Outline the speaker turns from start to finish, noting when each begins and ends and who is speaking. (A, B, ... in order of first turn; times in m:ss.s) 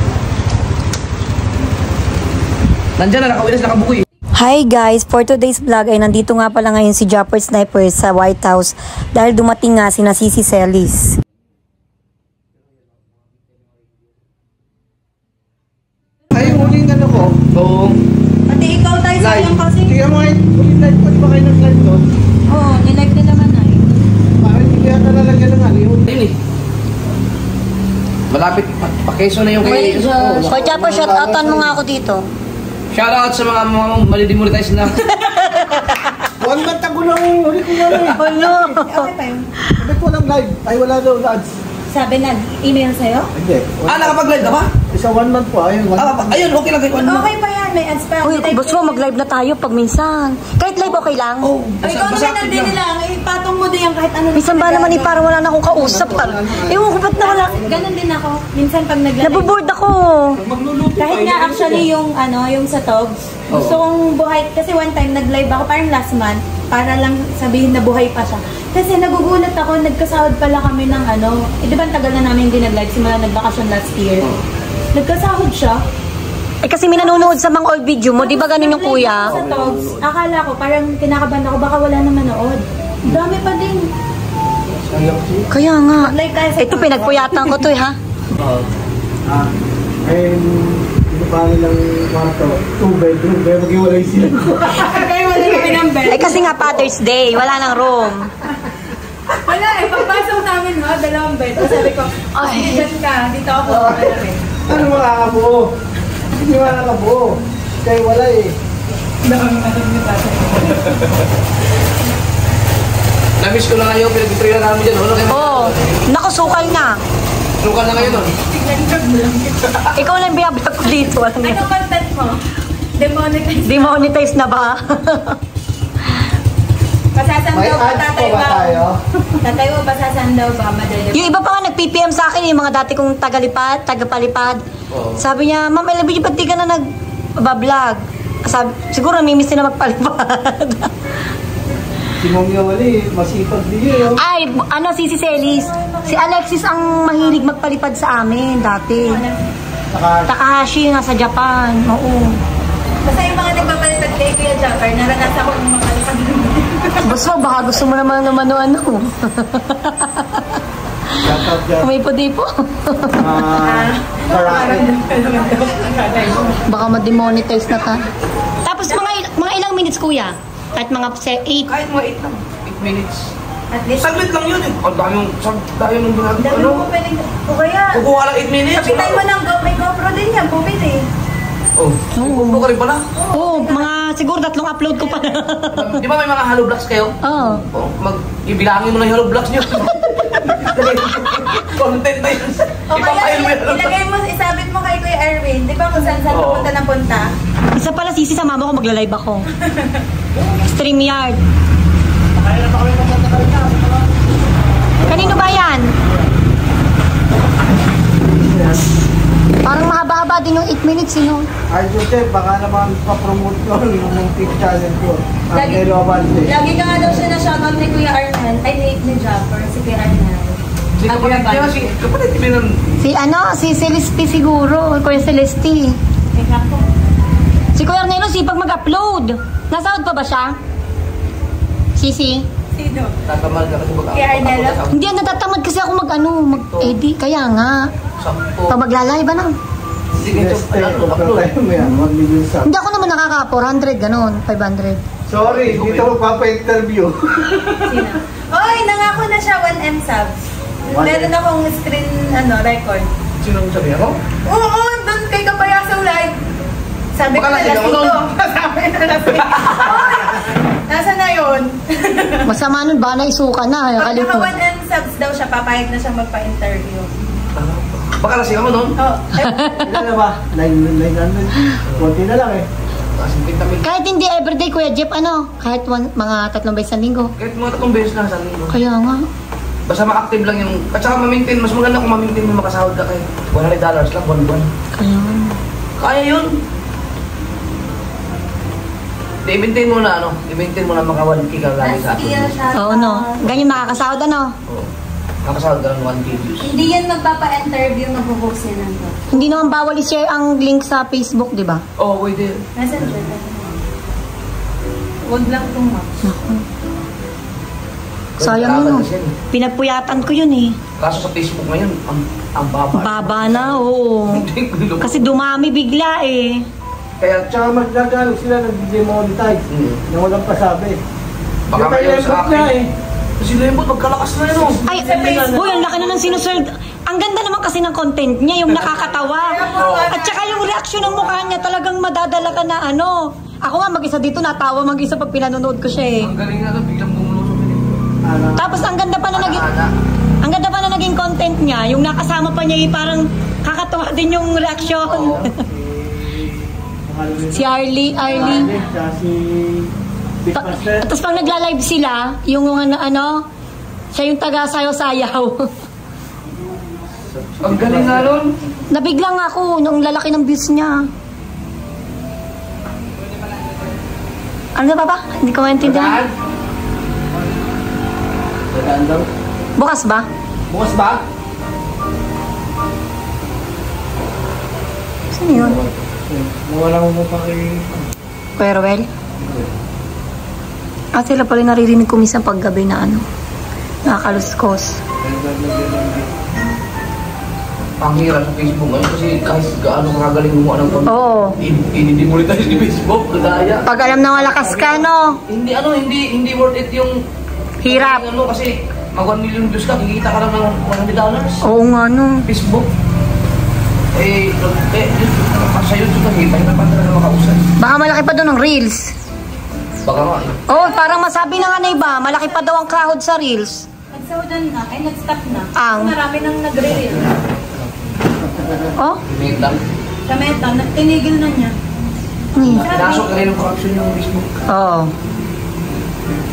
0:03.0-0:04.0 A
0:04.4-0:11.2 B
0:16.3-0:17.4 C
0:17.5-0:18.0 A
0:18.5-0:19.9 D
0:19.2-0:22.0 C
0:22.5-0:23.9 D
0:24.4-0:26.1 C
0:26.0-0:26.4 A
0:28.3-0:30.1 A
0:29.6-0:32.3 B
0:29.7-0:30.0 D
0:29.9-0:31.8 C
0:32.9-0:35.0 A
0:35.0-0:35.4 D
0:35.4-0:36.2 B
0:36.3-0:38.2 C
0:38.1-0:39.1 B
0:38.2-0:39.5 D
0:39.7-0:41.5 C
0:41.9-0:43.3 D
0:43.3-0:46.5 C
0:43.9-0:44.7 A
0:46.0-0:47.3 A
0:46.9-0:49.1 D
0:48.2-0:51.5 B
0:51.4-0:52.8 A
0:51.8-0:55.2 D
0:54.3-0:57.6 B
0:55.7-0:57.9 C
0:57.2-0:59.6 D
0:59.2-1:00.4 B
1:00.4-1:01.8 A
1:01.0-1:14.3 D
1:03.5-1:03.8 A
1:14.9-1:15.8 D
1:16.6-1:19.4 B
1:16.9-1:17.3 D
1:18.2-1:23.9 D
1:19.2-1:20.0 A
1:24.7-1:25.5 C
1:25.5-1:28.0 B
1:26.0-1:27.6 D
1:28.4-1:28.6 A
1:30.0-1:35.8 C
1:34.7-1:36.5 D
1:36.0-1:38.3 B
1:39.3-1:39.9 A
1:39.4-1:44.4 D
1:42.3-1:42.9 B
1:43.6-1:45.7 C
1:46.3-1:48.5 C
1:49.2-1:51.1 D
1:53.4-1:56.0 A
1:55.3-1:57.0 B
1:57.6-1:58.4 A
1:58.0-1:59.7 D
1:59.7-2:00.0 A
1:59.9-2:01.6 B
2:01.4-2:02.4 D
2:03.0-2:04.0 D
2:03.6-2:05.4 B
2:07.1-2:08.8 D
2:07.5-2:09.0 C
2:09.4-2:11.3 D
2:11.1-2:14.6 B
2:14.9-2:15.2 A
2:15.2-2:16.8 B
2:17.4-2:20.9 B
2:22.2-2:24.2 C
2:24.1-2:29.2 B
2:25.8-2:26.3 D
2:29.0-2:29.4 D
2:29.9-2:30.3 C
2:30.3-2:32.4 B
2:33.0-2:37.2 D
2:37.0-2:40.6 B
2:41.2-2:41.9 C
2:41.2-2:43.5 B
2:43.2-2:44.9 C
2:43.6-2:46.5 D
2:46.4-2:48.0 B
2:48.6-2:51.7 B
2:51.6-2:53.3 A
2:53.7-2:54.2 D
2:54.0-2:56.9 A
2:56.4-2:58.0 D
2:57.9-2:59.2 A
2:58.8-3:01.0 D
3:01.8-3:03.0 A
3:02.1-3:02.7 B
3:03.1-3:03.9 D
3:03.3-3:06.0 B
3:05.1-3:05.4 D
3:05.7-3:14.0 A
3:07.2-3:07.6 B
3:12.9-3:17.3 D
3:16.3-3:16.7 A
3:17.7-3:19.5 B
3:19.5-3:20.0 D
3:20.6-3:21.4 B
3:22.3-3:24.3 C
3:24.9-3:26.3 C
3:25.1-3:25.9 B
3:28.2-3:28.8 C
3:29.6-3:31.5 B
3:31.7-3:36.5 C
3:35.5-3:35.8 D
3:36.4-3:41.9 D
3:41.0-3:43.0 A
3:43.0-3:46.0 B
3:46.3-3:46.9 D
3:47.8-3:50.6 B
3:52.0-3:52.5 B
3:52.7-3:53.2 D
3:53.2-3:55.3 A
3:54.1-3:54.8 D
3:54.9-3:57.9 B
3:56.5-3:57.0 A
3:58.2-3:58.8 A
3:58.7-3:59.6 B
4:00.2-4:01.5 A
4:00.2-4:02.7 C
4:02.6-4:05.0 B
4:05.3-4:07.9 C
4:05.4-4:06.1 A
4:07.8-4:13.1 D
4:10.9-4:11.3 C
4:13.4-4:14.2 A
4:14.4-4:16.4 D
4:17.1-4:22.5 D
4:17.3-4:18.2 A
4:19.3-4:20.3 A
4:22.4-4:24.5 B
4:24.0-4:27.1 D
4:27.5-4:28.9 A
4:29.0-4:29.8 D
4:29.4-4:29.9 B
4:29.8-4:32.6 C
4:33.1-4:33.9 A
4:33.8-4:37.3 B
4:37.4-4:38.8 A
4:38.7-4:39.2 B
4:39.9-4:44.7 A
4:45.0-4:45.6 B
4:46.0-4:46.6 A
4:49.4-4:52.6 A
4:51.8-4:53.4 D
4:52.7-4:54.5 B
4:53.4-4:54.0 A
4:55.4-4:56.7 A
4:56.6-4:59.4 D
4:59.3-5:01.8 B
5:02.0-5:02.6 A
5:02.8-5:03.7 D
5:05.2-5:06.1 D
5:06.2-5:06.6 B
5:08.4-5:09.3 A
5:08.4-5:10.8 B
5:11.0-5:15.4 A
5:12.9-5:14.5 B
5:15.0-5:16.6 B
5:17.2-5:17.5 A
5:17.5-5:21.0 C
5:19.7-5:20.0 A
5:21.7-5:22.7 A
5:21.7-5:22.9 C
5:23.4-5:24.8 A
5:24.8-5:26.5 D
5:24.8-5:36.3 B
5:28.8-5:29.0 A
5:29.1-5:31.6 D
5:29.7-5:30.1 A
5:36.2-5:38.0 A
5:38.2-5:38.8 C
5:38.6-5:39.6 B
5:39.3-5:39.9 A
5:40.4-5:45.6 B
5:45.0-5:45.5 A
5:45.6-5:47.7 C
5:47.5-5:48.7 B
5:48.2-5:49.9 C
5:50.4-5:51.2 C
5:50.6-5:53.4 B
5:54.1-5:55.7 B
5:57.4-5:58.4 C
5:57.6-5:58.5 A
5:58.9-6:01.1 B
6:04.8-6:06.2 B
6:05.8-6:06.3 C
6:08.7-6:09.3 C
6:09.8-6:10.3 B
6:10.7-6:11.2 C
6:15.3-6:15.8 B
6:15.5-6:18.0 C
6:18.6-6:19.1 B
6:19.4-6:19.7 C
6:21.2-6:23.2 B
6:24.0-6:25.0 B
6:25.2-6:26.3 C
6:28.0-6:33.9 A
6:31.1-6:31.5 B
6:33.8-6:35.4 B
6:34.1-6:35.0 C
6:35.5-6:37.1 A
6:37.8-6:38.2 B
6:37.8-6:41.6 A
6:41.6-6:42.4 B
6:42.5-6:42.9 A
6:44.1-6:47.6 A
6:47.8-6:49.1 B
6:50.0-6:50.6 A
6:50.7-6:53.8 B
6:54.1-6:57.3 D
6:55.8-6:56.1 B
6:57.3-6:58.9 C
6:59.2-6:59.8 A
7:00.3-7:01.7 D
7:02.6-7:02.8 B
7:02.6-7:04.6 A
7:02.8-7:03.3 D
7:04.7-7:05.1 B